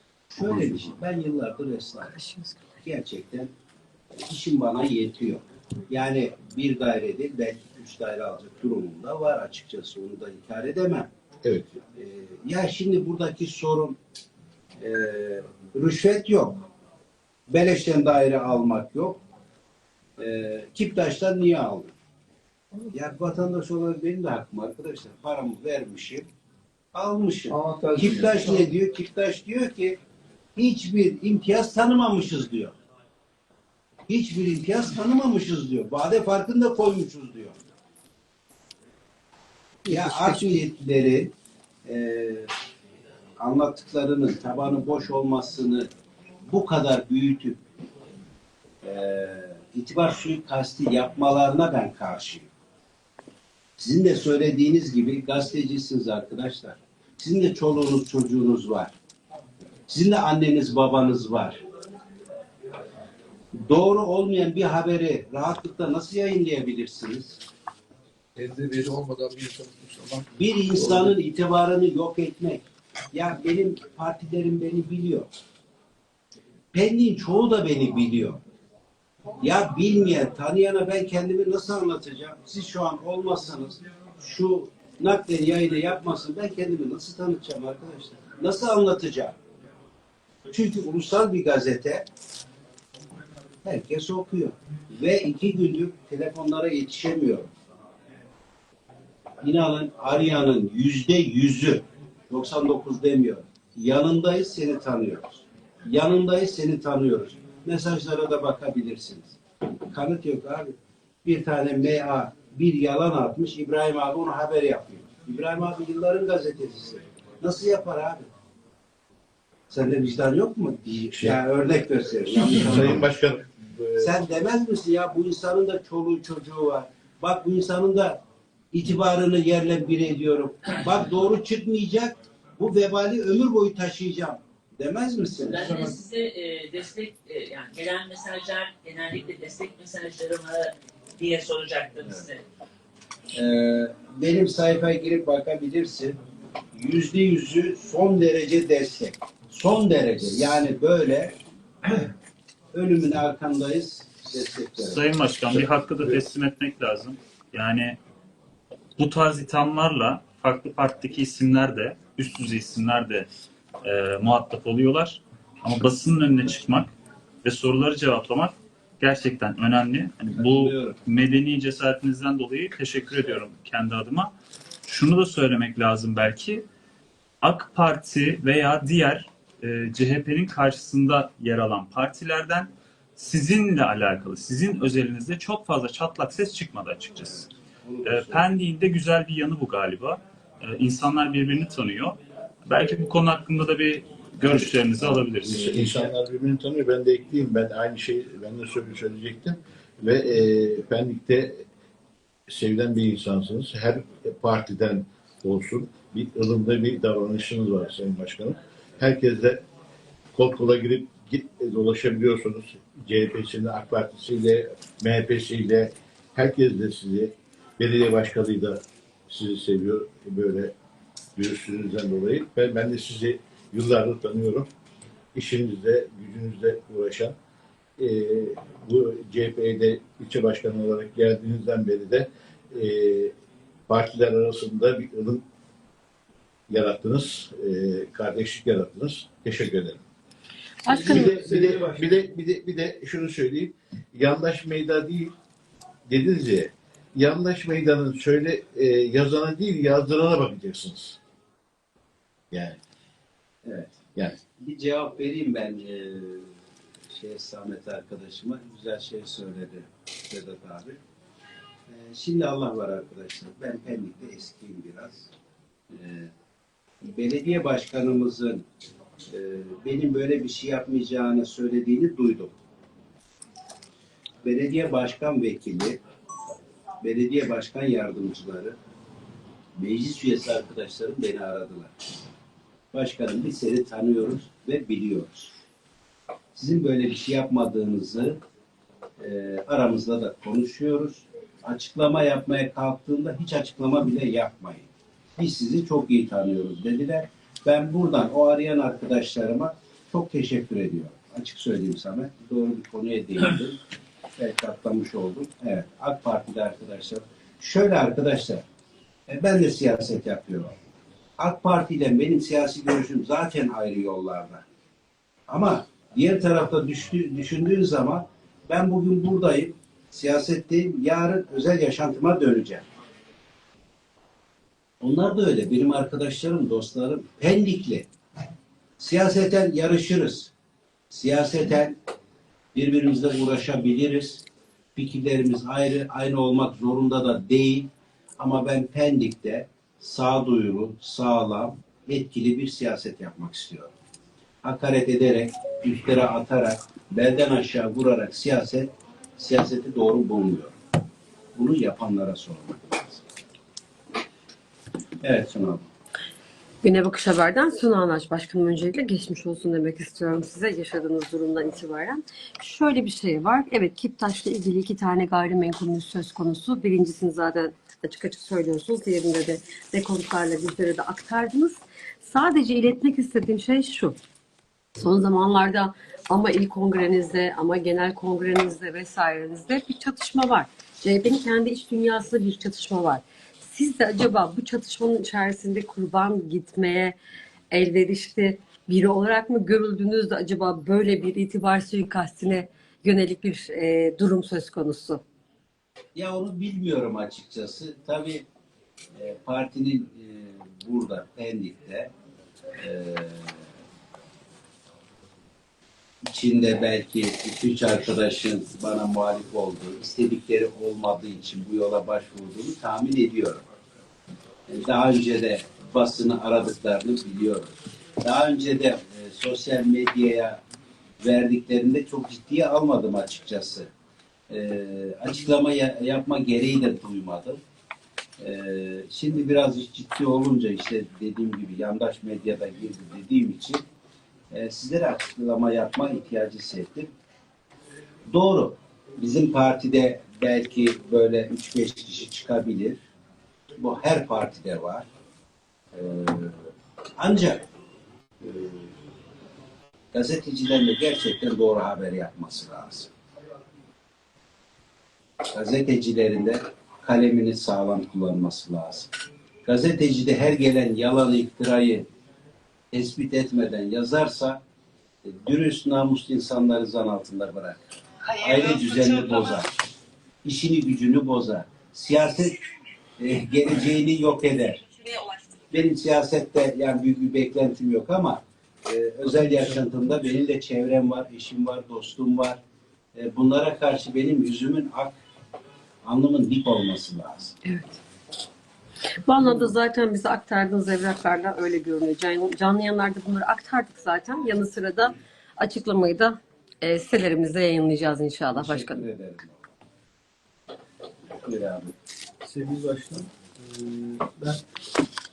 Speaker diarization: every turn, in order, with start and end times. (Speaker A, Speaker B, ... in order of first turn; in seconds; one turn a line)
Speaker A: 0.3-2.2
Speaker B: 2.0-2.7
Speaker A: 2.8-3.5
Speaker A: 4.2-11.1
Speaker C: 11.4-11.8
Speaker A: 11.9-14.0
Speaker A: 14.8-16.6
Speaker A: 17.5-19.2
Speaker A: 20.2-21.9
Speaker A: 22.9-26.2
Speaker A: 26.9-30.0
Speaker D: 27.5-28.7
Speaker A: 30.6-32.7
Speaker A: 34.1-37.6
Speaker A: 39.8-41.3
Speaker D: 39.9-40.6
Speaker A: 41.8-42.5
Speaker A: 43.4-45.9
Speaker A: 46.5-47.6
Speaker A: 48.8-52.5
Speaker A: 53.8-58.9
Speaker A: 59.9-61.6
Speaker A: 63.5-67.4
Speaker D: 68.3-71.1
Speaker A: 70.4-75.3
Speaker A: 76.7-78.4
Speaker A: 79.4-89.3
Speaker A: 90.5-92.1
Speaker A: 93.6-97.5
Speaker A: 99.4-109.4
Speaker A: 109.9-118.3
Speaker A: 119.7-123.1
Speaker C: 121.1-121.4
Speaker C: 122.3-124.1
Speaker A: 124.0-136.0
Speaker E: 135.4-142.4
Speaker A: 143.3-146.2
Speaker A: 146.7-152.1
Speaker A: 152.7-155.0
Speaker F: 154.8-158.0
Speaker F: 159.0-163.3
Speaker F: 163.8-166.9
Speaker F: 167.4-174.3
Speaker A: 170.3-171.0
Speaker F: 174.8-176.6
Speaker F: 177.4-187.5
Speaker A: 187.2-188.4
Speaker F: 188.0-195.8
Speaker C: 194.4-201.6
Speaker A: 195.4-196.1
Speaker C: 202.5-209.6
Speaker C: 210.3-220.7
Speaker C: 221.3-224.7
Speaker C: 225.3-227.3
Speaker C: 228.0-233.3
Speaker C: 233.9-235.4
Speaker C: 236.7-240.0
Speaker B: 240.8-241.6
Speaker C: 240.9-245.3
Speaker A: 240.9-241.6
Speaker C: 246.1-251.2
Speaker C: 252.5-252.8
Speaker A: 253.6-254.0
Speaker C: 254.1-254.4
Speaker A: 254.6-256.5
Speaker A: 257.1-261.0
Speaker A: 261.9-265.3
Speaker A: 265.9-266.3
Speaker A: 267.0-268.6
Speaker A: 269.3-272.6
Speaker A: 274.4-276.0
Speaker A: 277.0-278.8
Speaker A: 279.8-281.9
Speaker A: 282.9-285.5
Speaker A: 286.5-288.4
Speaker A: 289.2-303.8
Speaker A: 304.4-308.6
Speaker A: 309.3-310.7
Speaker A: 311.4-314.6
Speaker A: 315.5-322.9
Speaker A: 325.0-328.1
Speaker A: 329.0-330.5
Speaker A: 331.1-331.9
Speaker A: 332.7-334.4
Speaker A: 334.9-343.9
Speaker A: 344.6-350.7
Speaker A: 351.5-353.2
Speaker A: 355.2-355.9
Speaker B: 356.8-374.2
Speaker B: 375.0-387.1
Speaker B: 387.7-395.2
Speaker A: 396.1-398.4
Speaker A: 399.1-402.1
Speaker A: 402.8-403.6
Speaker A: 406.2-413.6
Speaker A: 414.7-420.6
Speaker A: 421.2-423.9
Speaker A: 424.5-427.6
Speaker A: 428.4-433.8
Speaker A: 434.5-437.1
Speaker A: 438.3-443.0
Speaker A: 443.8-445.1
Speaker A: 445.9-446.6
Speaker A: 447.2-447.6
Speaker A: 448.4-448.9
Speaker A: 450.1-453.1
Speaker A: 455.5-459.1
Speaker A: 459.6-462.1
Speaker A: 462.9-464.6
Speaker A: 465.2-469.7
Speaker A: 470.4-472.6
Speaker A: 473.2-474.8
Speaker A: 475.7-482.6
Speaker A: 483.1-485.1
Speaker A: 486.0-487.6
Speaker B: 487.6-488.0
Speaker B: 489.2-499.1
Speaker A: 498.5-499.7
Speaker A: 501.3-501.9
Speaker G: 502.4-504.6